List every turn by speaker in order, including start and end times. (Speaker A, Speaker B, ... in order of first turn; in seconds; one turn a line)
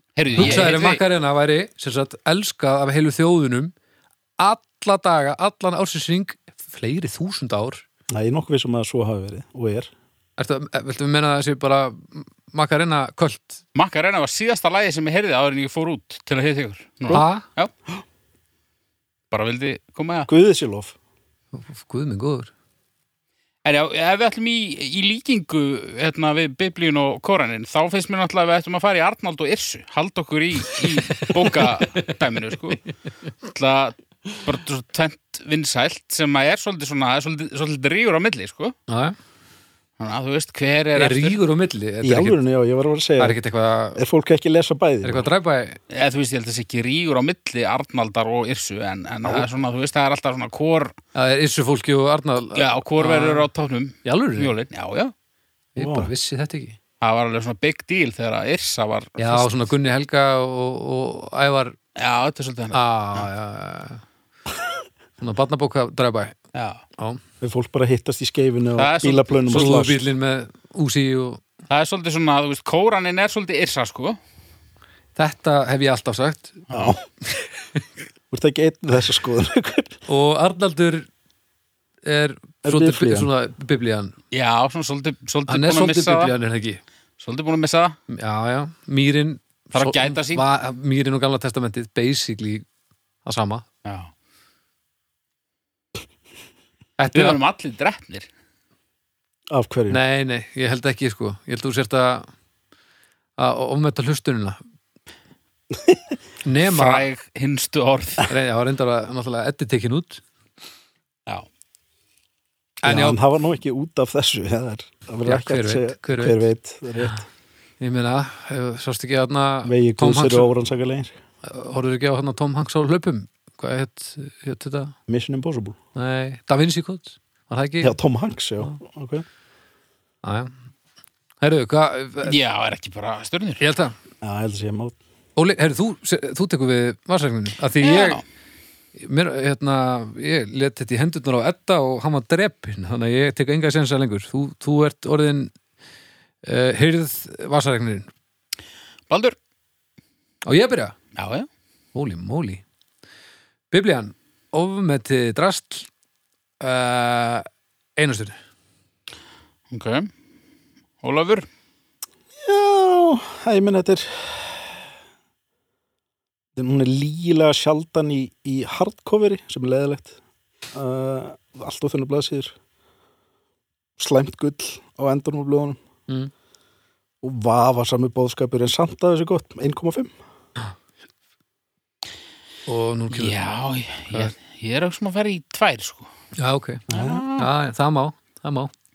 Speaker A: 0.1-1.0
Speaker B: 0.3-0.7
Speaker C: 0.4-3.7
Speaker C: 4.4-7.8
Speaker B: 8.1-9.9
Speaker C: 10.4-13.6
Speaker A: 13.7-17.7
Speaker C: 17.1-17.4
Speaker A: 19.3-20.3
Speaker B: 20.3-20.9
Speaker C: 21.5-22.5
Speaker A: 23.6-32.8
Speaker C: 30.8-32.1
Speaker A: 33.4-38.7
Speaker C: 38.9-39.1
Speaker A: 40.0-41.4
Speaker C: 41.0-42.4
Speaker B: 42.0-43.4
Speaker C: 43.2-44.0
Speaker B: 44.0-45.3
Speaker C: 45.0-45.8
Speaker A: 45.9-50.9
Speaker C: 51.1-53.5
Speaker A: 52.5-55.1
Speaker C: 54.0-54.5
Speaker C: 55.7-56.8
Speaker B: 55.8-56.1
Speaker A: 57.0-59.6
Speaker C: 59.2-61.8
Speaker A: 62.0-63.3
Speaker C: 62.7-64.0
Speaker C: 65.2-66.4
Speaker A: 66.5-66.8
Speaker B: 67.4-70.0
Speaker A: 68.8-69.8
Speaker C: 69.5-71.4
Speaker A: 71.7-74.2
Speaker C: 75.2-76.7
Speaker A: 76.7-76.9
Speaker B: 76.7-77.0
Speaker C: 77.2-77.8
Speaker B: 78.3-80.0
Speaker C: 80.1-81.1
Speaker C: 82.0-84.1
Speaker B: 82.6-83.3
Speaker A: 84.3-86.3
Speaker C: 85.5-86.8
Speaker A: 87.2-88.0
Speaker C: 88.1-92.6
Speaker A: 89.7-90.4
Speaker C: 93.2-93.7
Speaker A: 93.8-94.1
Speaker C: 97.0-97.4
Speaker A: 97.1-98.3
Speaker B: 99.5-100.0
Speaker C: 99.9-102.3
Speaker C: 103.4-104.6
Speaker C: 106.4-107.0
Speaker A: 106.6-108.3
Speaker C: 108.3-110.2
Speaker C: 112.8-113.2
Speaker B: 112.8-117.2
Speaker C: 115.2-116.4
Speaker C: 117.8-120.5
Speaker B: 119.6-121.1
Speaker C: 121.4-124.9
Speaker B: 125.1-125.8
Speaker C: 125.9-128.0
Speaker B: 127.8-129.2
Speaker C: 130.2-130.5
Speaker C: 131.4-132.3
Speaker A: 132.2-133.6
Speaker C: 133.6-133.9
Speaker B: 134.2-134.9
Speaker C: 135.3-138.2
Speaker A: 137.8-138.2
Speaker C: 138.9-145.5
Speaker C: 146.4-148.1
Speaker A: 149.1-149.3
Speaker C: 150.4-150.9
Speaker A: 151.1-151.5
Speaker C: 151.9-152.6
Speaker C: 153.7-155.9
Speaker C: 156.6-157.4
Speaker C: 158.0-158.3
Speaker A: 159.7-160.1
Speaker A: 161.0-161.5
Speaker B: 162.4-164.8
Speaker B: 166.6-170.2
Speaker B: 170.7-172.5
Speaker B: 174.0-175.8
Speaker B: 177.2-180.1
Speaker C: 182.7-183.3
Speaker A: 183.1-186.1
Speaker C: 186.4-186.8
Speaker B: 186.9-187.3
Speaker A: 186.9-187.5
Speaker C: 187.3-188.7